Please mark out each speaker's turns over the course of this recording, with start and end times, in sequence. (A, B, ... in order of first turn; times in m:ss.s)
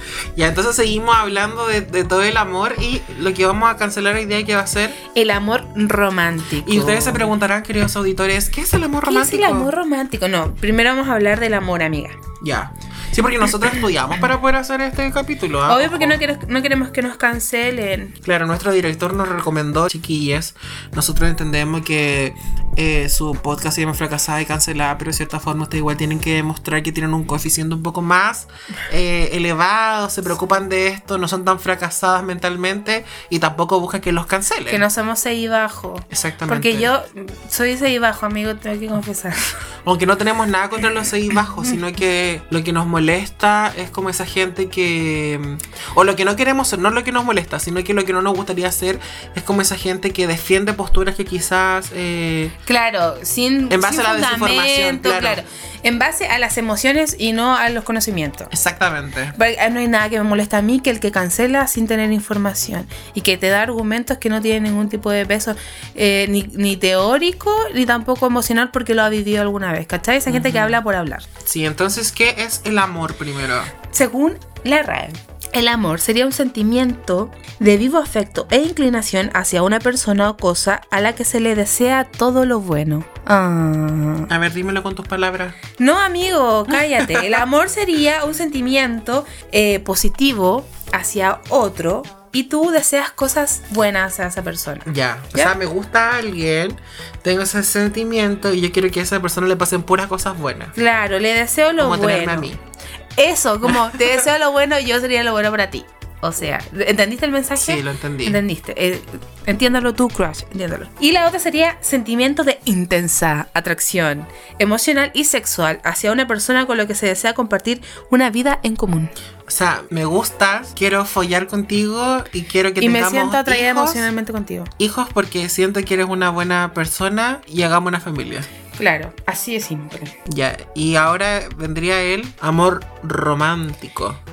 0:00.4-0:05.0 A
0:05.1-0:07.3 B
0:06.6-0:09.7 A
0:09.1-0:12.2 B
0:12.4-0:16.2 A
0:15.7-0:18.2 B
0:18.2-0:34.8 A
0:34.7-0:39.6 B
0:36.1-0:36.9 A
0:39.8-0:52.6 A
0:52.6-0:58.5 B
0:53.7-0:55.4 A
0:58.5-0:59.4 A
0:59.4-1:11.3 B
1:10.3-1:10.8 A
1:11.4-1:13.7 A
1:13.9-1:24.3 B
1:24.3-1:25.6 A
1:25.8-1:35.6 B
1:27.0-1:27.3 A
1:34.9-1:40.8 A
1:40.8-1:42.5 B
1:41.8-1:42.6 A
1:43.2-1:59.1 B
1:47.6-1:48.4 A
1:59.5-2:04.1 A
2:02.8-2:04.7 B
2:04.8-2:08.5 A
2:08.8-2:10.2 B
2:10.3-2:14.2 A